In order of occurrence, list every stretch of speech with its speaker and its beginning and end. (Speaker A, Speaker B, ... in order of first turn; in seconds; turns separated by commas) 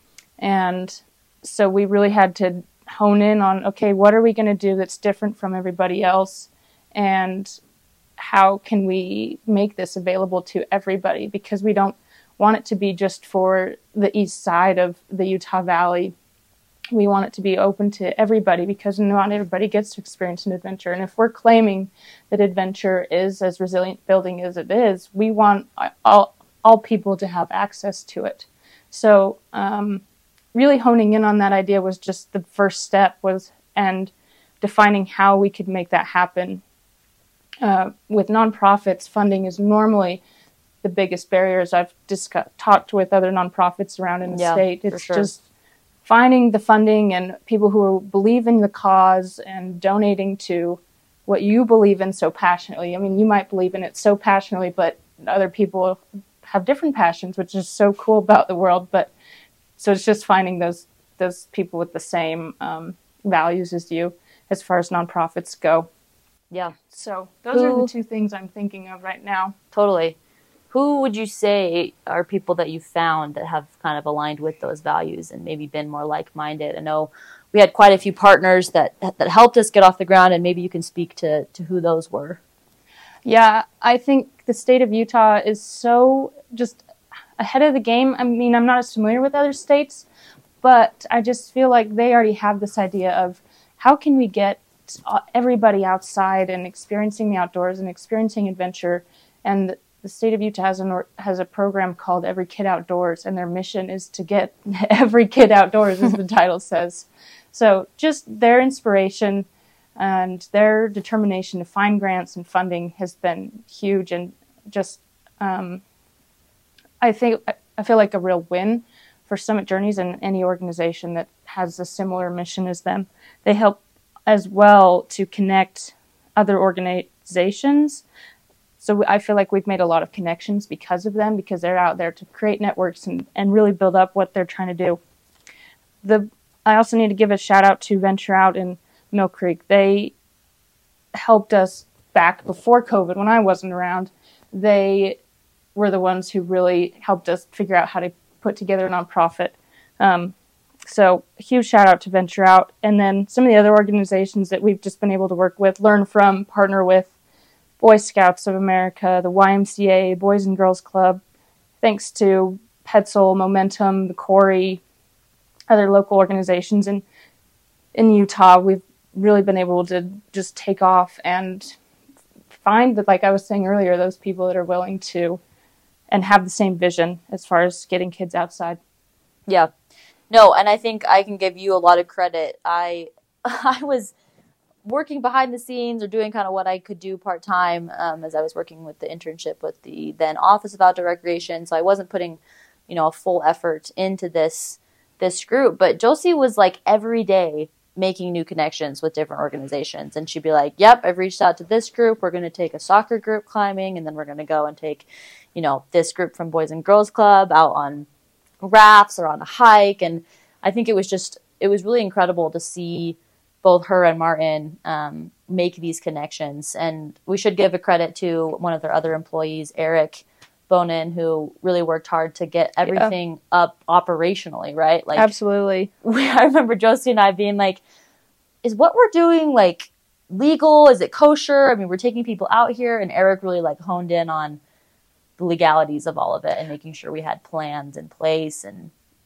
Speaker A: 0.4-7.6, Speaker A: 8.2-16.1, Speaker A: 16.9-30.0, Speaker A: 30.5-36.6, Speaker A: 37.6-40.2, Speaker A: 40.8-45.4, Speaker B: 44.3-45.3, Speaker A: 46.0-59.1, Speaker A: 59.8-65.9, Speaker B: 66.5-66.8, Speaker A: 66.9-69.5, Speaker B: 67.5-67.9, Speaker B: 69.7-70.2, Speaker B: 70.7-82.4, Speaker A: 83.2-86.8, Speaker A: 87.4-90.1, Speaker A: 90.6-115.8, Speaker A: 117.0-128.0, Speaker A: 128.8-135.0, Speaker A: 136.0-140.2, Speaker A: 141.1-145.2, Speaker A: 145.8-157.1, Speaker A: 157.8-161.2, Speaker A: 161.8-164.8, Speaker A: 165.7-167.0, Speaker A: 167.9-171.8, Speaker A: 172.5-175.4, Speaker A: 176.1-178.8, Speaker B: 180.3-184.1, Speaker B: 184.8-208.1, Speaker B: 208.6-225.3, Speaker A: 222.8-223.1, Speaker A: 225.2-225.9, Speaker B: 226.0-227.8, Speaker B: 228.6-234.6, Speaker B: 235.4-238.9